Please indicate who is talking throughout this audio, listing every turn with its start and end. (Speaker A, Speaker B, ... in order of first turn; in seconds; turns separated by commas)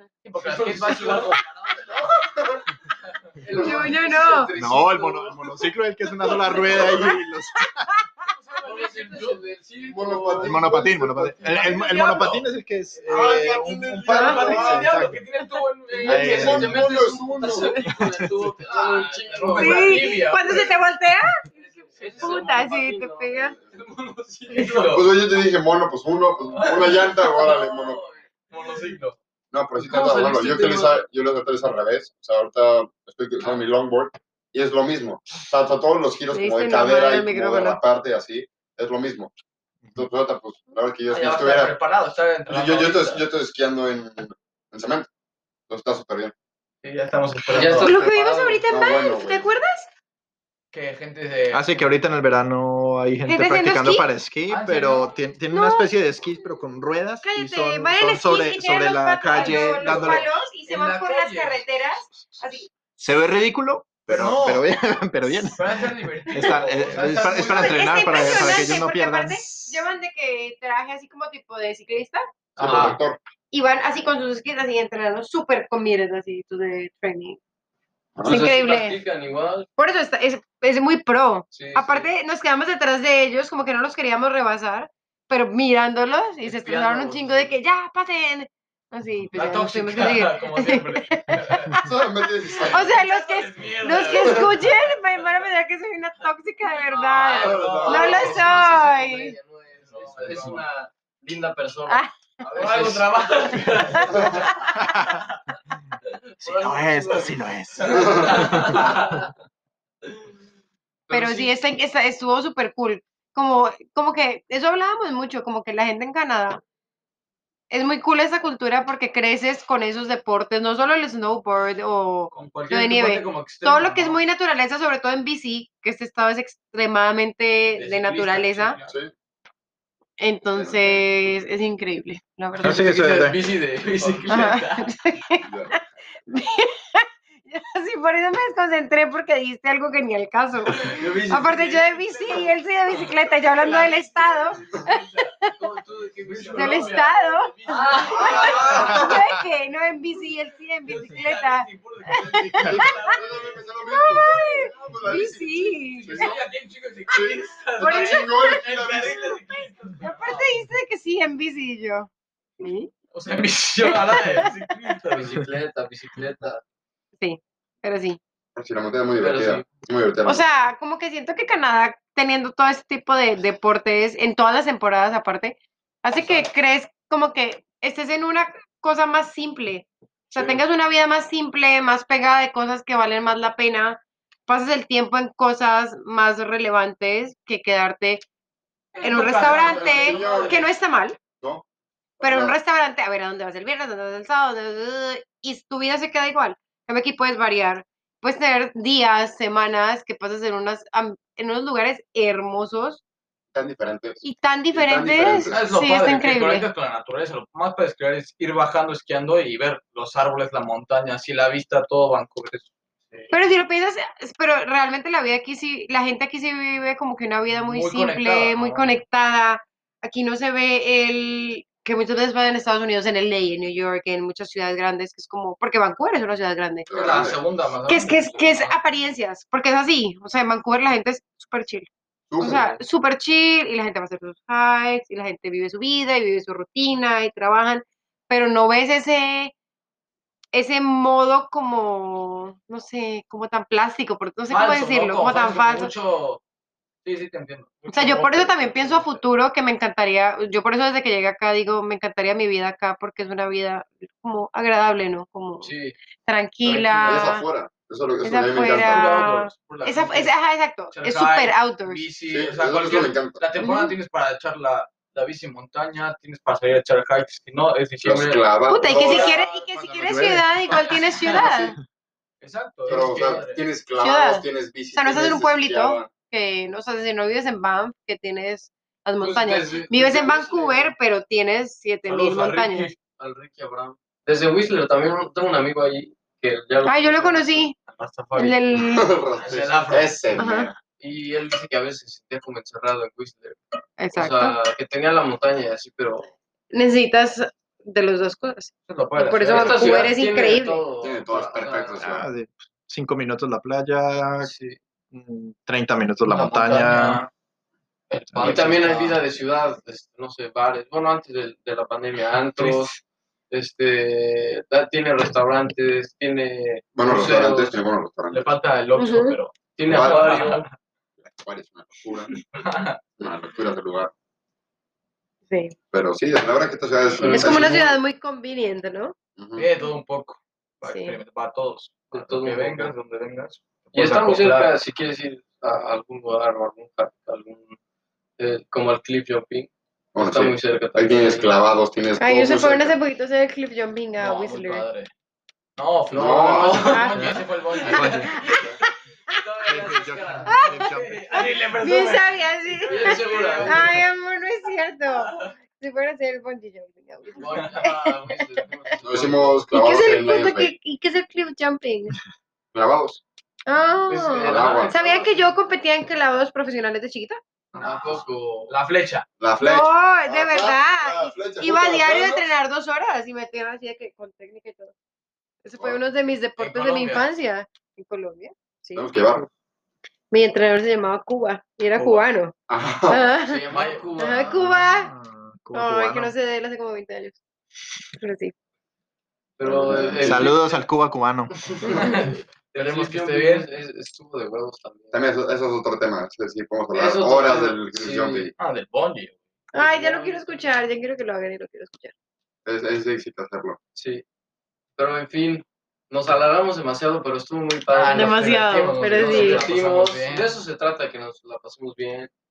Speaker A: 0.2-1.9, Speaker B: 0.4-1.4, Speaker C: 1.9-2.6, Speaker B: 3.4-5.7, Speaker D: 3.5-4.5, Speaker E: 4.6-8.0, Speaker B: 6.2-6.8, Speaker D: 6.7-7.1, Speaker C: 6.8-7.0, Speaker A: 8.3-9.4, Speaker B: 8.6-10.7, Speaker C: 9.8-11.7, Speaker E: 10.4-15.2, Speaker A: 11.4-16.8, Speaker B: 13.1-13.6, Speaker C: 13.1-14.9, Speaker D: 14.1-14.4, Speaker B: 16.0-20.3, Speaker E: 16.1-16.9, Speaker C: 16.1-17.8, Speaker D: 17.5-17.8, Speaker E: 17.9-18.5, Speaker A: 18.6-20.7, Speaker D: 19.5-21.5, Speaker B: 21.5-25.1, Speaker A: 21.6-22.5, Speaker D: 22.2-23.6, Speaker A: 24.5-25.1, Speaker C: 24.9-28.0, Speaker B: 26.6-28.8, Speaker A: 26.6-27.0, Speaker A: 28.5-29.2, Speaker C: 29.5-39.3, Speaker B: 29.8-31.0, Speaker D: 36.3-37.8, Speaker C: 40.0-41.7, Speaker A: 41.1-43.2, Speaker C: 42.5-45.1, Speaker C: 45.7-46.3, Speaker A: 46.8-48.0, Speaker B: 47.5-48.6, Speaker D: 47.8-49.9, Speaker C: 48.7-49.5, Speaker A: 50.7-51.9, Speaker E: 51.5-60.3, Speaker D: 53.3-54.1, Speaker A: 54.5-55.1, Speaker D: 55.5-56.6, Speaker D: 57.2-62.7, Speaker A: 59.3-61.6, Speaker E: 63.0-69.8, Speaker A: 64.1-64.7, Speaker A: 65.5-68.5, Speaker D: 67.3-72.2, Speaker C: 72.6-73.2, Speaker A: 72.6-73.0, Speaker D: 73.5-77.4, Speaker C: 78.2-78.4, Speaker D: 78.2-79.0, Speaker B: 78.2-79.7, Speaker D: 79.8-91.9, Speaker B: 81.5-82.1, Speaker B: 86.4-87.5, Speaker A: 89.3-91.8, Speaker C: 91.8-93.0, Speaker A: 92.6-95.0, Speaker D: 92.6-99.3, Speaker B: 96.8-104.3, Speaker A: 97.2-98.6, Speaker C: 97.3-98.4, Speaker A: 99.9-100.6, Speaker D: 101.9-102.2, Speaker A: 102.6-105.4, Speaker D: 103.9-104.7, Speaker E: 104.8-105.2, Speaker B: 106.3-109.3, Speaker E: 106.4-108.9, Speaker A: 107.8-109.2, Speaker C: 107.9-108.4, Speaker B: 111.1-111.5, Speaker D: 111.1-116.6, Speaker D: 117.7-128.8, Speaker A: 122.3-124.2, Speaker A: 127.8-129.0, Speaker D: 130.2-133.0, Speaker C: 130.5-131.1, Speaker E: 132.6-133.4, Speaker B: 132.7-134.9, Speaker C: 133.8-134.3, Speaker D: 134.3-145.5, Speaker C: 135.4-135.7, Speaker B: 140.9-142.5, Speaker A: 142.9-145.3, Speaker B: 145.4-149.1, Speaker A: 146.2-149.2, Speaker D: 146.5-153.2, Speaker A: 150.8-153.6, Speaker C: 152.6-156.4, Speaker D: 153.8-156.4, Speaker A: 155.9-160.7, Speaker C: 157.1-159.3, Speaker D: 157.8-162.9, Speaker A: 163.1-165.4, Speaker D: 163.8-164.6, Speaker B: 165.1-166.6, Speaker D: 167.2-168.2, Speaker C: 168.6-170.4, Speaker B: 169.2-169.7, Speaker D: 170.2-188.2, Speaker C: 180.3-180.6, Speaker A: 188.9-190.7, Speaker D: 189.0-191.2, Speaker C: 189.4-190.7, Speaker C: 191.4-191.6, Speaker C: 192.2-192.6, Speaker D: 192.2-203.0, Speaker C: 203.5-205.6, Speaker D: 204.2-206.7, Speaker A: 205.5-213.3, Speaker D: 213.3-226.9, Speaker A: 217.5-219.0, Speaker C: 226.9-227.4, Speaker A: 226.9-228.8, Speaker D: 227.9-239.5, Speaker C: 232.3-232.8, Speaker D: 240.5-245.9, Speaker A: 244.5-246.4, Speaker A: 247.1-249.2, Speaker D: 247.9-255.7, Speaker A: 255.6-256.0, Speaker D: 256.2-257.4, Speaker A: 256.6-257.3, Speaker C: 257.1-259.1, Speaker D: 258.2-262.0, Speaker A: 258.4-260.3, Speaker A: 260.9-269.6, Speaker C: 262.3-263.4, Speaker D: 263.6-263.9, Speaker C: 268.0-269.4, Speaker B: 268.1-268.4, Speaker D: 268.7-271.8, Speaker B: 269.0-269.4, Speaker E: 269.8-270.6, Speaker A: 270.6-271.5, Speaker A: 272.4-273.6, Speaker B: 272.9-273.4, Speaker C: 272.9-276.1, Speaker D: 274.0-282.9, Speaker B: 279.2-280.9, Speaker A: 282.1-283.0, Speaker B: 283.1-288.6, Speaker D: 286.9-287.8, Speaker A: 288.0-288.6, Speaker D: 288.4-289.1, Speaker C: 288.8-290.8, Speaker A: 289.4-290.4, Speaker D: 290.4-290.7, Speaker B: 291.0-293.6, Speaker D: 294.0-294.6, Speaker B: 294.1-296.3, Speaker D: 296.7-300.9, Speaker A: 298.9-300.1, Speaker B: 299.5-302.0, Speaker C: 301.0-302.3, Speaker E: 302.0-304.5, Speaker B: 304.4-304.8, Speaker E: 305.1-307.2, Speaker A: 306.3-307.3, Speaker A: 308.1-309.2, Speaker E: 308.3-308.8, Speaker B: 308.4-313.0, Speaker A: 312.6-312.9, Speaker B: 313.5-317.8, Speaker C: 316.9-318.6, Speaker A: 318.3-320.7, Speaker D: 319.0-319.4, Speaker B: 319.8-320.7, Speaker C: 319.9-320.6, Speaker C: 321.3-322.3, Speaker A: 322.5-323.0, Speaker C: 323.2-324.1, Speaker D: 325.5-325.8, Speaker C: 325.9-327.9, Speaker B: 327.1-327.9, Speaker D: 327.3-329.1, Speaker C: 329.4-329.7, Speaker A: 329.6-334.7, Speaker D: 330.8-331.2, Speaker B: 332.1-333.0, Speaker B: 333.9-337.8, Speaker B: 338.4-341.6, Speaker C: 340.2-342.9, Speaker D: 342.2-344.9, Speaker A: 344.2-345.1, Speaker A: 345.8-348.7, Speaker C: 346.1-346.9, Speaker B: 346.1-348.7, Speaker D: 346.9-347.2, Speaker E: 347.2-348.3, Speaker D: 348.3-349.4, Speaker C: 348.4-348.7, Speaker B: 349.3-351.5, Speaker E: 349.7-351.3, Speaker A: 350.1-353.9, Speaker D: 350.4-350.8, Speaker D: 351.3-358.7, Speaker B: 352.8-353.9, Speaker A: 355.1-355.5, Speaker B: 357.3-359.7, Speaker C: 359.1-360.7, Speaker D: 359.7-362.2, Speaker C: 362.7-363.2, Speaker D: 363.7-367.4, Speaker B: 364.1-365.4, Speaker C: 364.5-365.0, Speaker A: 367.7-369.2, Speaker B: 367.8-368.7, Speaker C: 369.4-372.5, Speaker D: 369.6-374.9, Speaker D: 375.6-379.1, Speaker A: 376.6-377.3, Speaker C: 378.9-379.5, Speaker D: 380.3-382.6, Speaker C: 382.7-383.4, Speaker D: 383.1-383.6, Speaker B: 383.4-384.7, Speaker A: 383.7-384.4, Speaker D: 384.2-385.1, Speaker E: 384.4-386.3, Speaker D: 385.7-387.4, Speaker D: 388.2-388.5, Speaker B: 389.6-390.8, Speaker C: 389.6-390.5, Speaker E: 390.2-391.5, Speaker B: 391.7-392.1, Speaker D: 391.9-392.2, Speaker A: 391.9-393.7, Speaker B: 392.7-395.2, Speaker C: 395.1-398.5, Speaker B: 396.9-398.5, Speaker A: 398.6-399.4, Speaker D: 399.7-402.1, Speaker B: 399.7-400.7, Speaker C: 402.7-403.8, Speaker B: 404.0-404.2, Speaker B: 405.0-408.5, Speaker A: 407.9-410.5, Speaker D: 408.1-409.6, Speaker B: 409.1-412.3